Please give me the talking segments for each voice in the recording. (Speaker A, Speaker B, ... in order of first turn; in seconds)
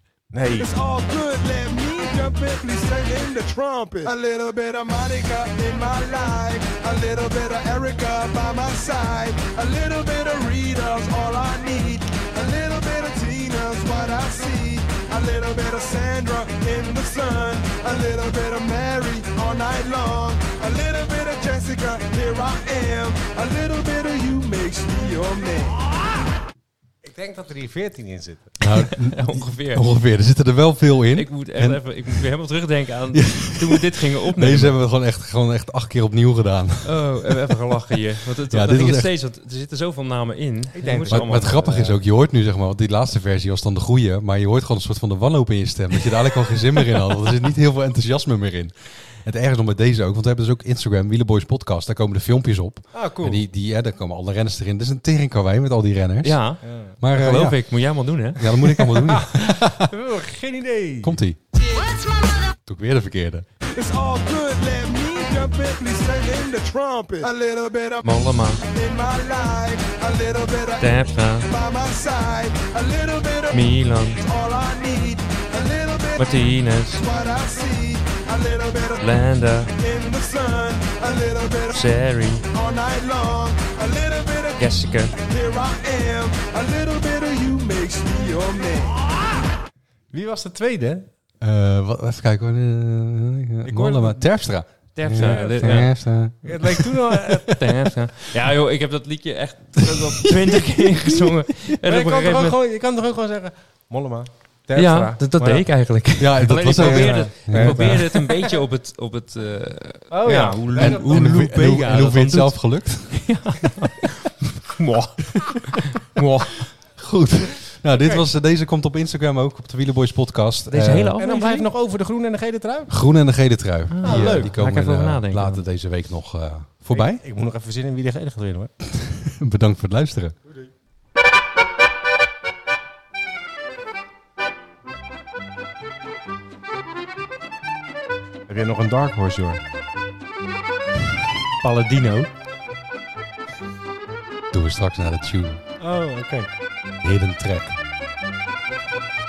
Speaker A: 0.3-0.7, 27.0-28.6, 40.7-41.6, 52.9-53.4, 56.6-57.0, 59.0-61.2, 86.9-87.6, 90.1-91.1, 93.6-94.2, 95.2-95.7, 96.4-97.5, 101.8-105.7, 106.8-108.6, 110.1-111.2, 117.9-118.3, 121.2-122.9, 124.0-124.5, 126.9-128.7, 138.5-139.6, 145.8-146.5
Speaker B: 0.6-25.9, 63.7-76.4, 76.9-79.2, 79.7-81.9, 82.4-89.0
Speaker C: 28.6-32.3, 33.1-37.7, 38.5-39.1, 41.1-56.4, 57.0-57.8, 58.4-59.9, 61.0-61.4, 62.6-63.6, 91.4-97.7, 106.2-108.0, 110.7-113.6, 116.9-121.2, 122.9-127.2, 128.9-130.3, 144.5-145.6, 147.0-147.8
Speaker D: 28.7-29.9, 31.1-34.8, 36.8-42.0, 56.2-58.8, 68.0-68.6, 70.8-71.5, 73.5-74.2, 76.2-77.0, 79.0-79.7, 81.7-82.5, 84.6-85.2, 95.0-96.0, 97.5-102.6, 104.7-116.7, 120.7-121.7, 123.9-125.6, 141.6-142.3